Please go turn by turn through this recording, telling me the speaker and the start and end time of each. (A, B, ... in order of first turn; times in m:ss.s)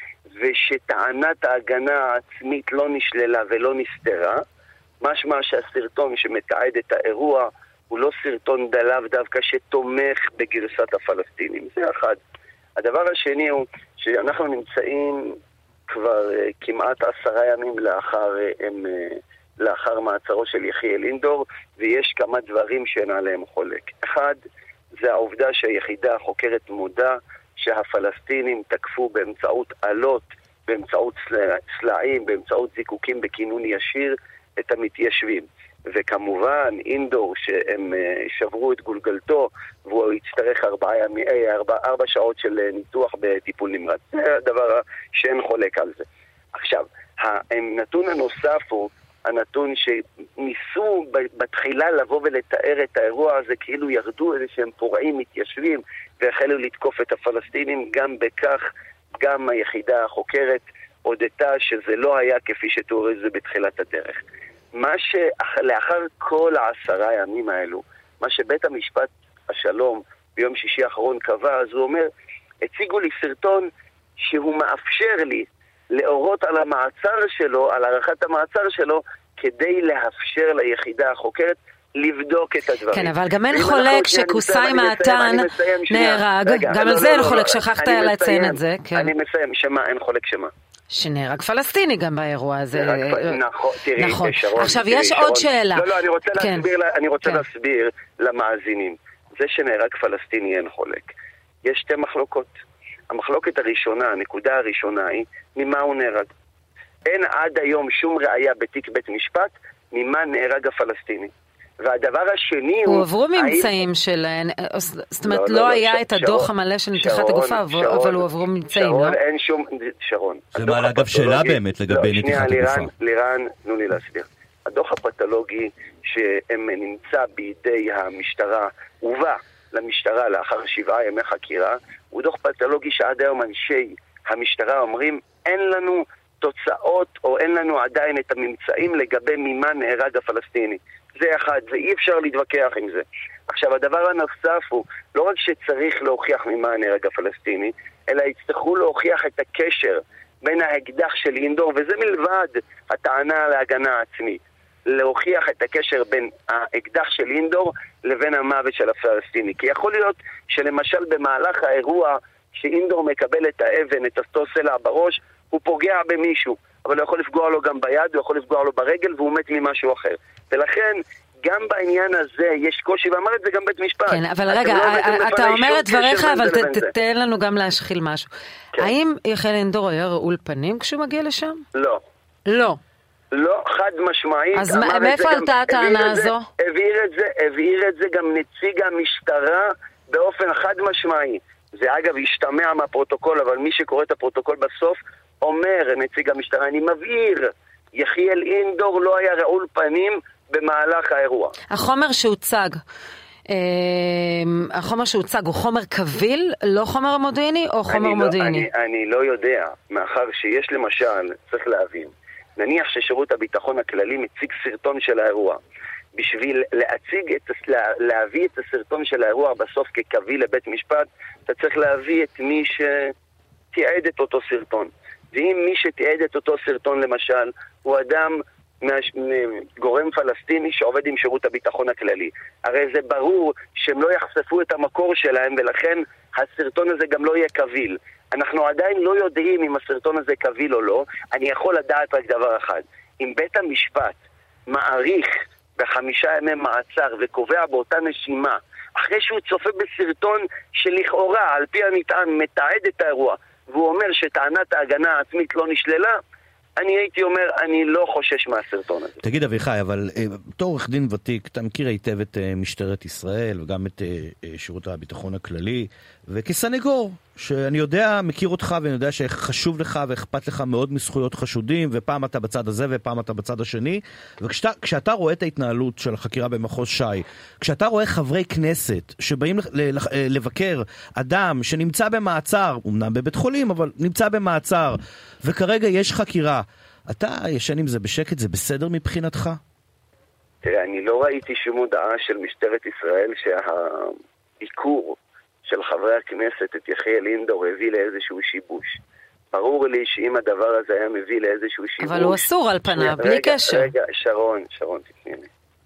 0:00.4-0:04.4 A
0:05.0-0:12.2 A
0:12.8-0:15.4 A
0:15.9-0:24.4 A
0:25.0-0:58.6 A
0:59.2-1:04.2 A
1:04.8-1:12.1 A
1:12.6-1:13.7 A
1:14.2-1:30.5 A
1:22.9-1:29.1 B
1:30.9-1:33.4 B
1:32.7-1:41.1 A
1:34.0-1:36.7 B
1:41.6-1:42.5 A
1:43.1-1:46.3 A
1:47.1-1:53.8 A
1:52.9-1:59.2 B
1:55.2-2:56.9 A
2:00.6-2:02.9 C
2:54.1-3:01.6 B
3:01.8-3:02.0 A
3:02.5-3:02.8 B
3:03.3-3:21.6 A
3:04.5-3:06.5 B
3:21.7-3:22.8 B
3:23.5-3:28.7 B
3:27.9-3:35.6 A
3:36.1-3:43.1 A
3:43.7-4:16.2 A
4:16.8-4:19.2 A
4:19.2-4:49.6 C
4:50.6-4:59.0 A
4:59.5-5:05.5 A
5:02.0-5:03.9 B